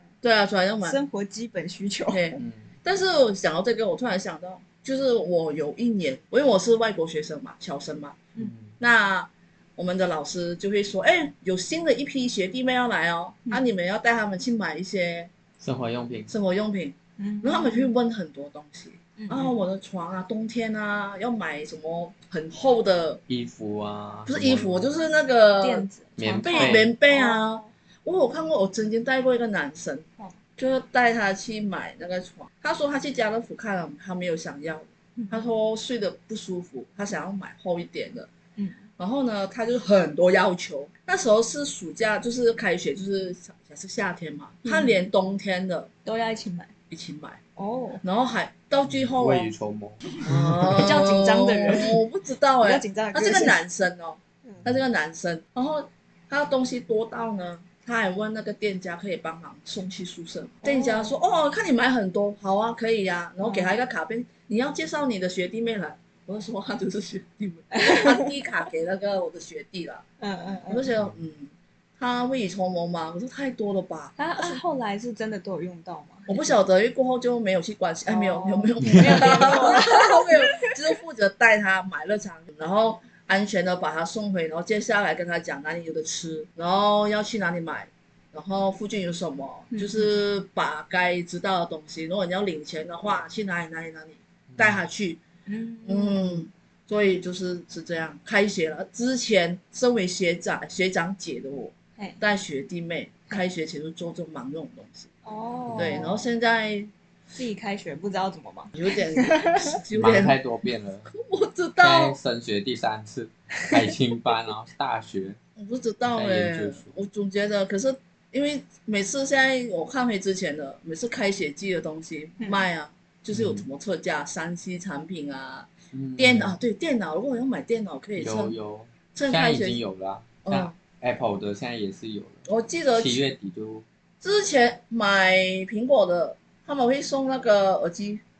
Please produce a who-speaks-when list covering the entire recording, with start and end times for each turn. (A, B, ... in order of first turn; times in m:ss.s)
0:00.2-0:01.0 A
0:00.8-0:02.4 B
0:02.1-0:08.2 A
0:02.4-0:02.7 C
0:08.4-0:08.7 C
0:08.8-0:15.3 A
0:15.6-0:16.3 C
0:16.3-0:23.2 A
0:17.2-0:17.9 B
0:19.2-0:19.6 B
0:23.3-0:25.0 C
0:24.3-0:25.8 A
0:25.6-0:27.7 B
0:26.2-0:26.9 C
0:26.5-0:30.0 A
0:30.6-0:38.3 A
0:35.2-0:35.4 B
0:38.6-0:38.8 B
0:39.0-0:45.9 A
0:44.6-0:45.0 B
0:46.0-0:46.7 B
0:46.9-0:47.4 A
0:47.6-0:48.0 B
0:48.0-0:49.5 A
0:48.9-0:51.0 C
0:50.2-1:10.0 A
0:50.7-0:52.0 B
0:52.6-0:53.6 B
1:00.6-1:01.2 B
1:03.4-1:03.7 B
1:07.7-1:08.3 B
1:10.2-1:10.8 B
1:10.7-1:14.6 A
1:14.2-1:16.6 B
1:16.3-1:35.2 A
1:18.0-1:20.7 B
1:18.8-1:19.3 C
1:29.7-1:30.2 B
1:34.5-1:34.8 C
1:35.4-1:36.5 B
1:35.8-1:45.1 A
1:45.2-1:46.3 B
1:45.7-1:46.0 C
1:45.8-1:46.9 A
1:47.3-1:49.7 B
1:48.7-1:50.4 A
1:49.9-1:51.1 C
1:51.1-1:52.2 A
1:51.8-1:55.4 C
1:55.6-2:08.5 A
1:56.0-1:56.9 C
2:02.4-2:02.6 B
2:03.3-2:03.6 C
2:05.9-2:06.6 C
2:08.2-2:13.8 C
2:09.1-2:09.8 A
2:10.4-2:10.7 A
2:12.5-2:13.2 A
2:14.2-2:18.2 A